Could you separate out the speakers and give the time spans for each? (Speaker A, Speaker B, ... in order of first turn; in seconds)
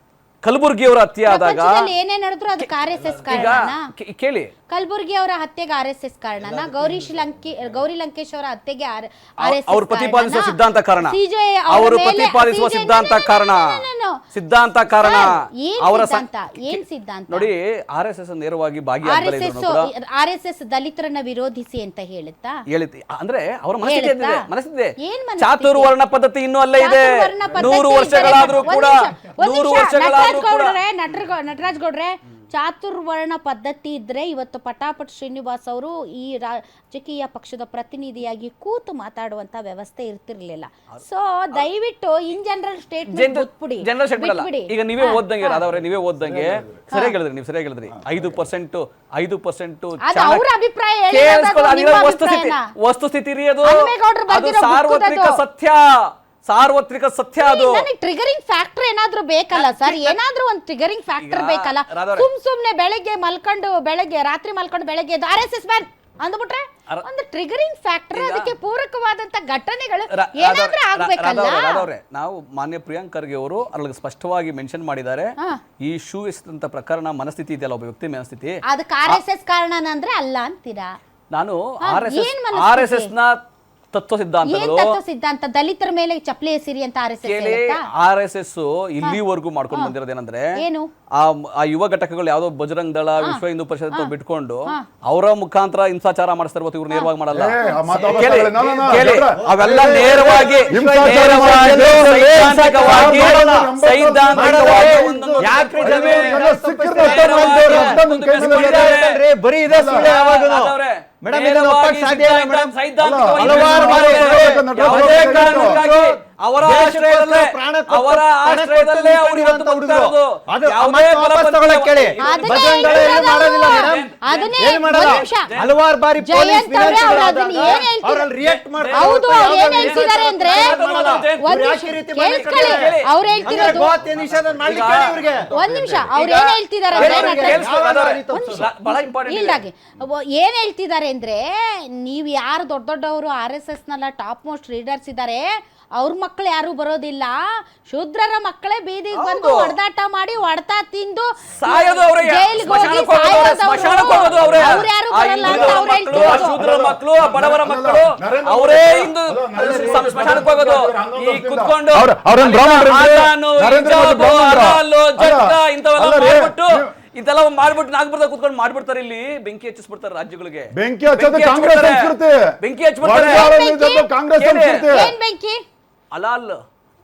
Speaker A: 0.4-1.9, 2.6-4.5, 9.4-11.2, 11.7-19.9, 22.7-30.8, 43.1-50.4, 51.1-57.8, 59.5-60.2, 61.2-62.2, 68.1-68.5, 70.1-79.2, 81.3-83.4, 83.9-85.0, 87.2-90.5, 91.2-125.7, 126.8-127.8, 128.4-139.6, 149.1-149.8, 151.6-173.5, 174.3-174.9, 176.1-176.6
Speaker B: 1.2-3.8, 4.7-14.2, 14.9-17.5, 19.0-22.6, 23.8-24.4, 25.0-25.9, 26.8-45.6, 50.0-52.6, 53.6-55.4, 57.4-71.9, 78.7-80.9, 81.8-83.1, 84.4-87.8, 90.6-90.9, 97.6-98.0, 122.2-125.6, 126.2-128.3, 128.9-130.8, 131.4-134.1, 135.5-137.7, 138.3-156.6, 173.2-174.1, 174.9-175.6
Speaker C: 46.1-46.9, 97.3-99.4, 100.1-109.0, 109.7-110.1, 113.0-115.8, 154.2-154.6, 155.4-166.9, 170.7-175.1
Speaker D: 97.8-103.7, 104.3-112.7, 113.3-135.9, 136.9-138.7, 159.6-160.3